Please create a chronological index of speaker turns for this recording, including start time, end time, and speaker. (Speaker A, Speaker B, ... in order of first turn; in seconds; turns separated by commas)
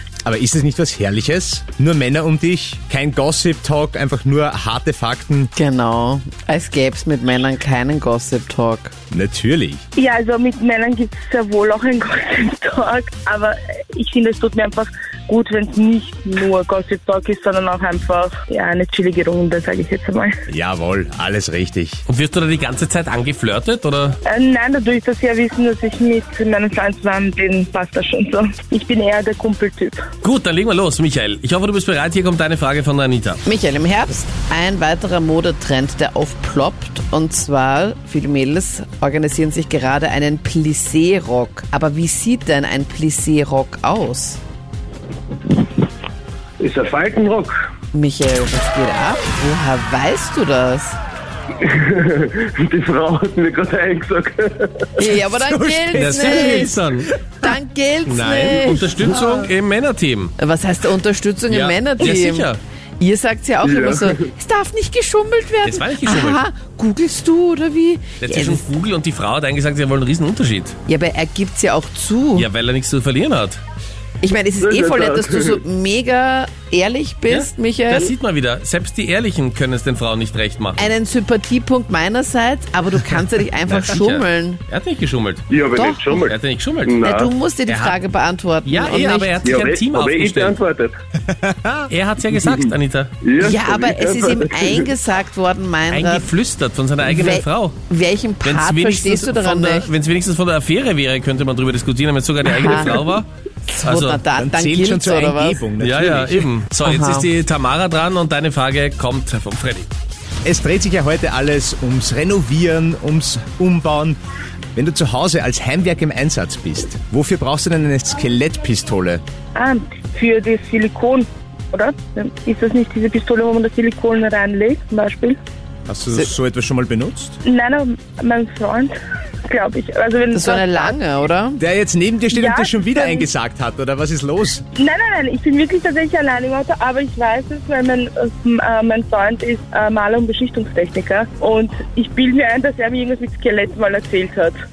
Speaker A: 0.2-5.5, Speaker B: 5.5-8.9, Speaker A: 9.1-9.8, Speaker C: 9.9-20.4, Speaker A: 20.5-22.0, Speaker D: 22.1-24.2, Speaker C: 24.2-30.0, Speaker D: 30.2-33.4, Speaker B: 33.5-44.4, Speaker E: 46.6-47.5, Speaker B: 47.9-51.0, Speaker E: 51.6-55.0, Speaker B: 55.0-56.8, Speaker A: 55.1-57.1, Speaker D: 55.9-57.1, Speaker B: 57.3-59.3, Speaker D: 58.0-60.3, Speaker B: 60.4-68.7, Speaker D: 61.5-62.6, Speaker E: 63.6-64.2, Speaker D: 65.6-66.4, Speaker D: 68.2-70.8, Speaker B: 70.9-72.5, Speaker D: 72.3-73.6, Speaker B: 74.2-78.1, Speaker E: 74.6-75.6, Speaker D: 77.3-80.9, Speaker B: 80.8-84.6, Speaker D: 83.7-85.5, Speaker E: 85.5-87.3, Speaker B: 85.7-86.3, Speaker D: 86.2-87.0, Speaker B: 86.9-89.4, Speaker D: 87.7-88.0, Speaker D: 88.6-90.6, Speaker E: 89.4-91.0, Speaker A: 91.3-91.9, Speaker D: 91.9-93.1, Speaker E: 92.4-92.7, Speaker E: 93.2-94.9, Speaker B: 93.4-96.3, Speaker D: 95.9-97.8, Speaker B: 97.0-99.9, Speaker D: 98.4-103.2, Speaker B: 102.5-103.2, Speaker B: 103.7-105.7, Speaker D: 103.8-104.2, Speaker A: 104.3-106.5, Speaker D: 105.8-109.9, Speaker B: 106.8-107.3, Speaker A: 110.4-114.2, Speaker A: 114.7-119.2, Speaker C: 119.5-125.4, Speaker A: 125.9-127.4, Speaker C: 127.4-128.9, Speaker C: 129.4-130.9, Speaker B: 130.3-131.6, Speaker A: 131.6-134.6, Speaker C: 132.3-133.3, Speaker C: 134.8-144.6